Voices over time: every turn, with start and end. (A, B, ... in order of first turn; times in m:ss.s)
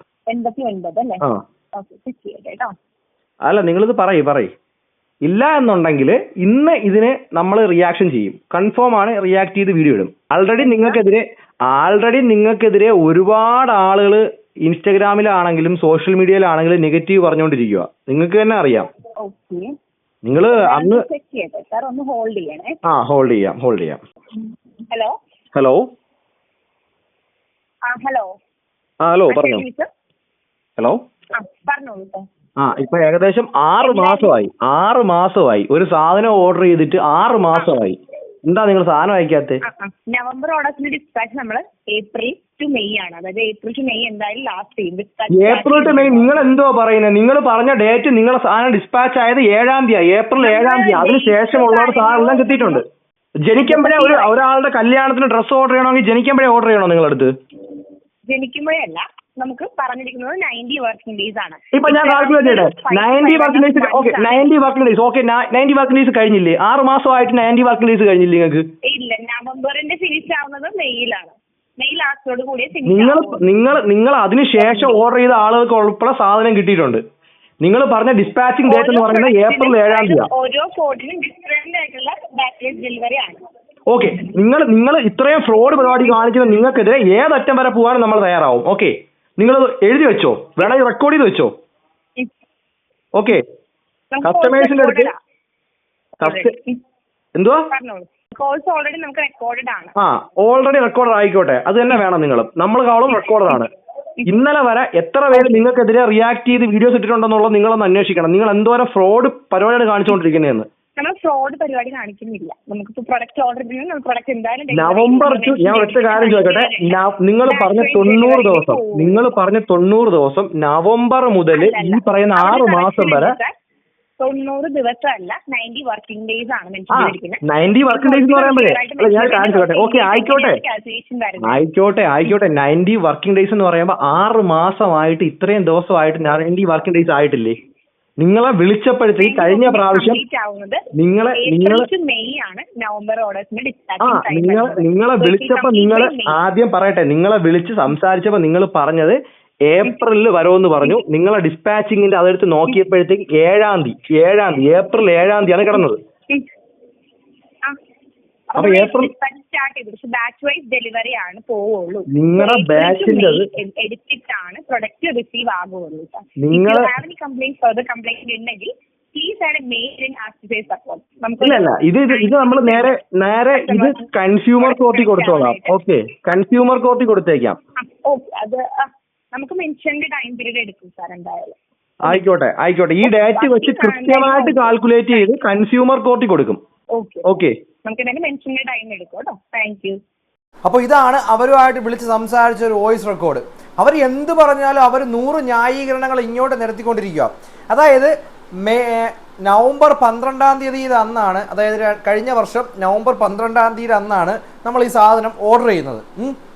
0:00.3-0:01.2 A
0:01.8-0:02.7 A
0:03.5-0:04.5 B
0:05.2-0:18.9 B
0:10.6-0:11.0 A
0:19.2-0:19.7 A
0:20.2-0:21.0 B
0:20.5-0:22.8 A
0:22.9-0:24.0 B
0:25.5-0:25.9 B
0:27.9-0:28.3 A
0:29.0-0:29.6 B
0:29.3-0:29.9 A
0:31.4-0:32.2 A
0:32.6-0:39.6 B
0:33.8-0:34.4 A
0:39.6-0:46.5 A
0:45.3-0:52.8 B
0:50.4-0:52.8 A
0:53.5-0:57.3 B
0:53.7-0:54.4 A
0:58.3-1:04.5 A
1:01.8-1:08.7 B
1:08.9-1:13.4 A
1:12.9-1:17.0 B
1:14.6-1:15.0 A
1:17.6-1:20.3 B
1:18.6-1:23.4 A
1:23.9-1:31.5 B
1:25.7-1:26.2 A
1:33.2-1:33.4 B
1:34.1-1:35.2 A
1:34.2-1:35.1 B
1:36.2-1:36.8 A
1:36.2-1:36.5 B
1:37.4-1:37.7 B
1:37.7-1:39.9 A
1:40.0-1:43.7 B
1:44.3-1:50.7 B
1:45.3-1:45.7 A
1:51.0-1:59.3 A
1:54.7-2:03.4 B
2:01.5-2:03.5 A
2:04.2-2:11.6 A
2:06.9-2:10.6 B
2:11.4-2:17.6 B
2:18.2-2:20.2 B
2:19.2-2:20.8 A
2:21.0-2:21.9 B
2:21.3-2:26.4 A
2:24.0-2:36.0 B
2:35.7-2:36.5 A
2:38.5-2:53.0 A
2:38.6-2:39.1 B
2:42.1-2:43.5 B
2:46.4-2:46.9 B
2:51.4-2:57.6 B
2:53.5-2:54.1 A
2:54.6-2:55.8 A
2:57.8-3:02.2 A
3:02.0-3:06.6 B
3:03.0-3:05.3 A
3:07.0-3:10.0 A
3:07.3-3:07.5 B
3:10.7-3:26.4 C